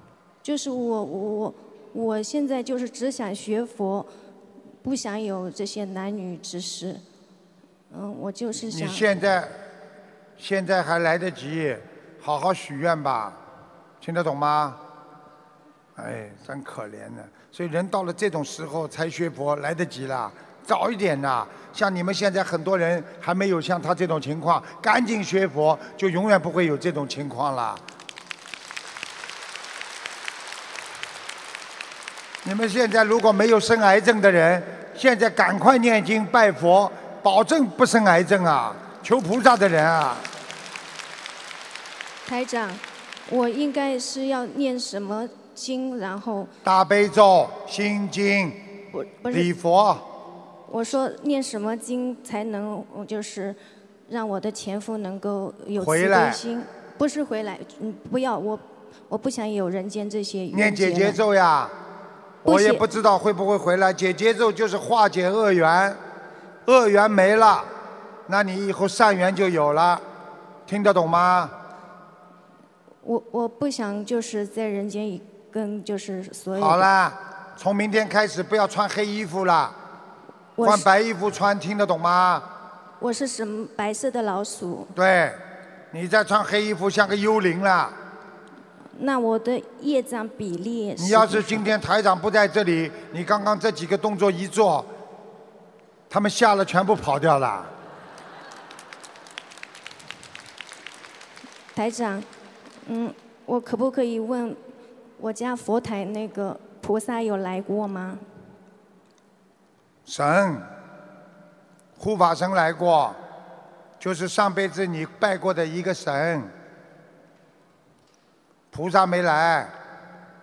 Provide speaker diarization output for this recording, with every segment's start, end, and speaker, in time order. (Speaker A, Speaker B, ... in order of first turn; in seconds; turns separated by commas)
Speaker A: 0.4-4.1, Speaker A: 4.8-7.0, Speaker A: 7.9-9.1, Speaker B: 8.6-9.6, Speaker B: 10.4-13.4, Speaker B: 14.0-14.8, Speaker B: 15.9-27.8, Speaker B: 32.4-40.3, Speaker A: 42.2-46.5, Speaker B: 46.6-48.6, Speaker A: 48.9-49.5, Speaker B: 49.3-50.0, Speaker A: 50.7-61.2, Speaker B: 55.8-56.4, Speaker B: 60.5-61.8, Speaker B: 62.4-66.0, Speaker A: 62.5-62.9, Speaker B: 66.7-67.7, Speaker B: 68.3-70.0, Speaker B: 70.7-71.5, Speaker A: 73.0-76.9, Speaker B: 76.5-79.8, Speaker A: 80.6-80.9, Speaker B: 80.6-82.5, Speaker A: 83.0-84.9, Speaker B: 85.0-85.4, Speaker B: 85.9-88.0, Speaker A: 88.9-91.7, Speaker B: 91.0-94.9, Speaker B: 96.1-97.7, Speaker A: 101.7-102.3, Speaker A: 102.8-104.6, Speaker A: 105.2-108.2, Speaker B: 110.0-110.7, Speaker B: 112.0-113.2, Speaker B: 114.0-116.5, Speaker B: 118.7-119.7